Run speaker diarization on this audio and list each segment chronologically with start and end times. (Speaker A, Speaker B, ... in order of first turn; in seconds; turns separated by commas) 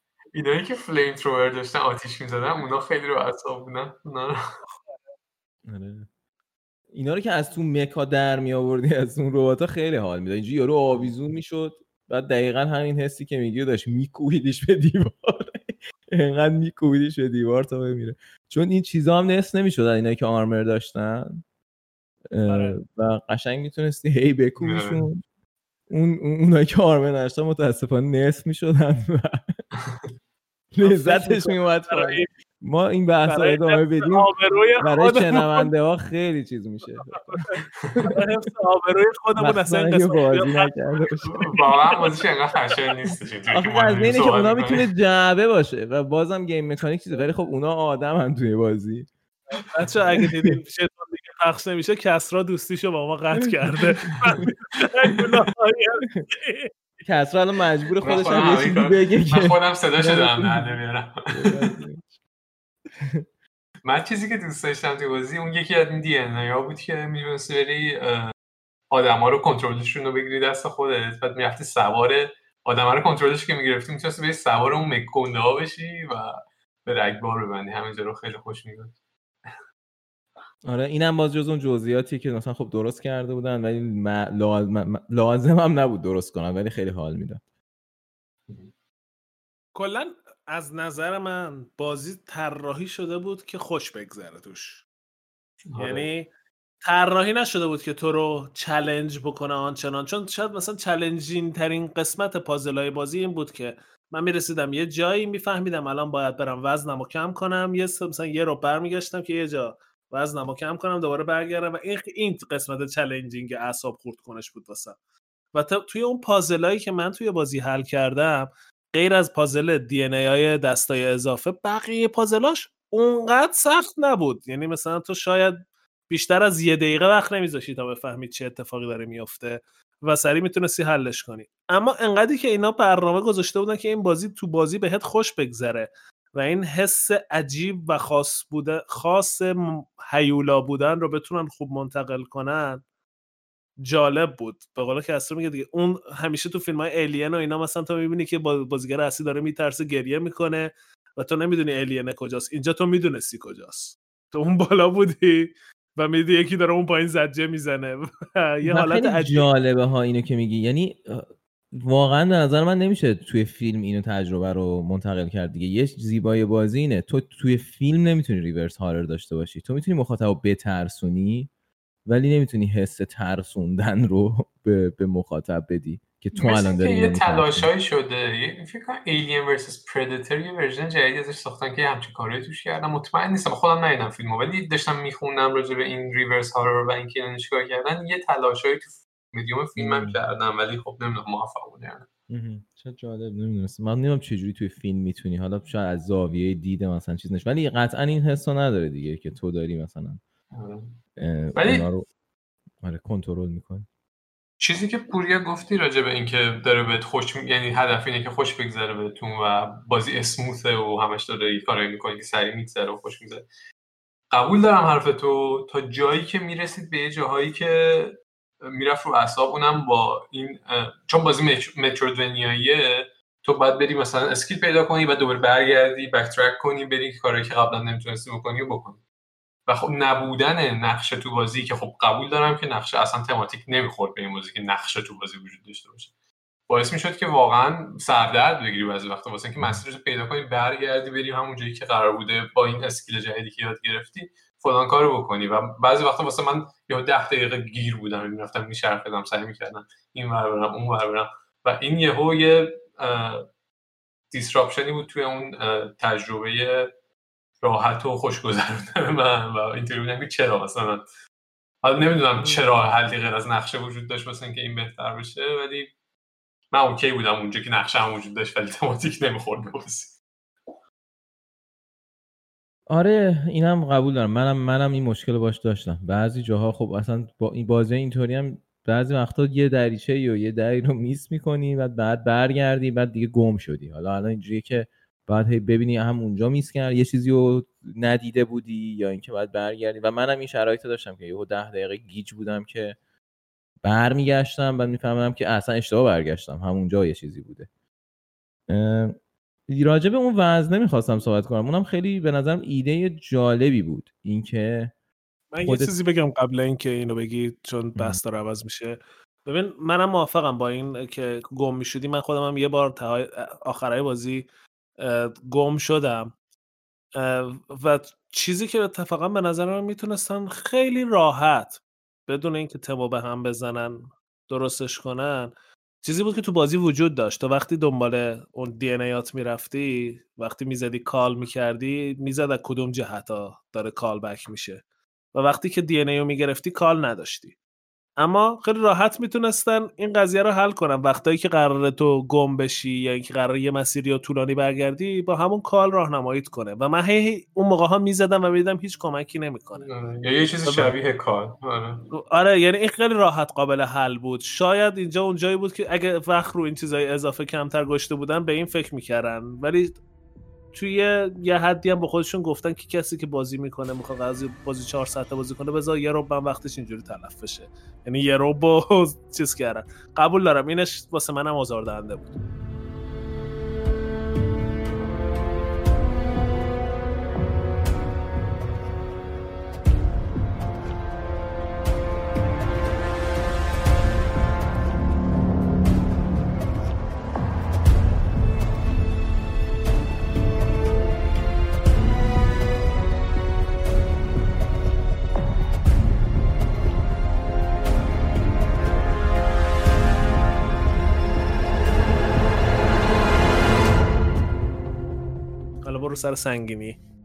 Speaker A: 0.3-4.4, Speaker B: 5.7-6.1, Speaker B: 6.9-21.4, Speaker B: 22.3-25.2, Speaker C: 22.5-22.8, Speaker A: 24.6-25.1, Speaker B: 25.9-29.5, Speaker B: 30.7-34.3, Speaker C: 30.8-32.3, Speaker C: 33.3-35.7, Speaker B: 34.8-37.4, Speaker C: 37.1-40.7, Speaker A: 37.8-38.0, Speaker B: 39.4-41.6, Speaker A: 41.3-44.9, Speaker B: 43.5-49.1, Speaker C: 49.5-56.7, Speaker B: 50.2-50.5, Speaker B: 53.4-54.5, Speaker B: 57.0-60.8, Speaker A: 58.0-61.7, Speaker B: 61.3-62.2, Speaker B: 63.0-63.2, Speaker A: 63.8-68.3, Speaker A: 68.9-78.9, Speaker B: 80.6-87.4, Speaker C: 89.7-94.8, Speaker A: 95.7-96.1, Speaker C: 95.8-96.3, Speaker C: 96.8-115.0, Speaker C: 115.5-125.6, Speaker C: 126.1-142.8, Speaker C: 143.8-159.5, Speaker B: 158.7-171.5, Speaker B: 172.1-177.7, Speaker A: 176.3-192.1, Speaker B: 189.8-190.2, Speaker B: 192.3-200.2, Speaker A: 200.5-200.9, Speaker B: 201.2-202.1, Speaker A: 201.6-201.9, Speaker B: 202.8-203.9, Speaker A: 204.6-213.4, Speaker A: 214.3-229.0, Speaker A: 229.7-236.1, Speaker A: 236.7-253.4, Speaker A: 254.3-256.9, Speaker A: 257.6-261.1, Speaker A: 261.8-265.9, Speaker A: 266.7-270.2, Speaker B: 272.9-293.0, Speaker B: 293.8-297.7, Speaker B: 298.7-299.1, Speaker B: 299.7-304.9, Speaker C: 305.5-314.5, Speaker B: 305.6-305.9, Speaker C: 315.0-316.3, Speaker C: 317.1-325.5, Speaker C: 326.0-334.8, Speaker C: 335.3-337.5, Speaker C: 338.2-349.9, Speaker A: 349.8-352.0, Speaker C: 350.6-350.9, Speaker C: 352.1-360.0, Speaker C: 360.7-372.4, Speaker C: 405.8-407.0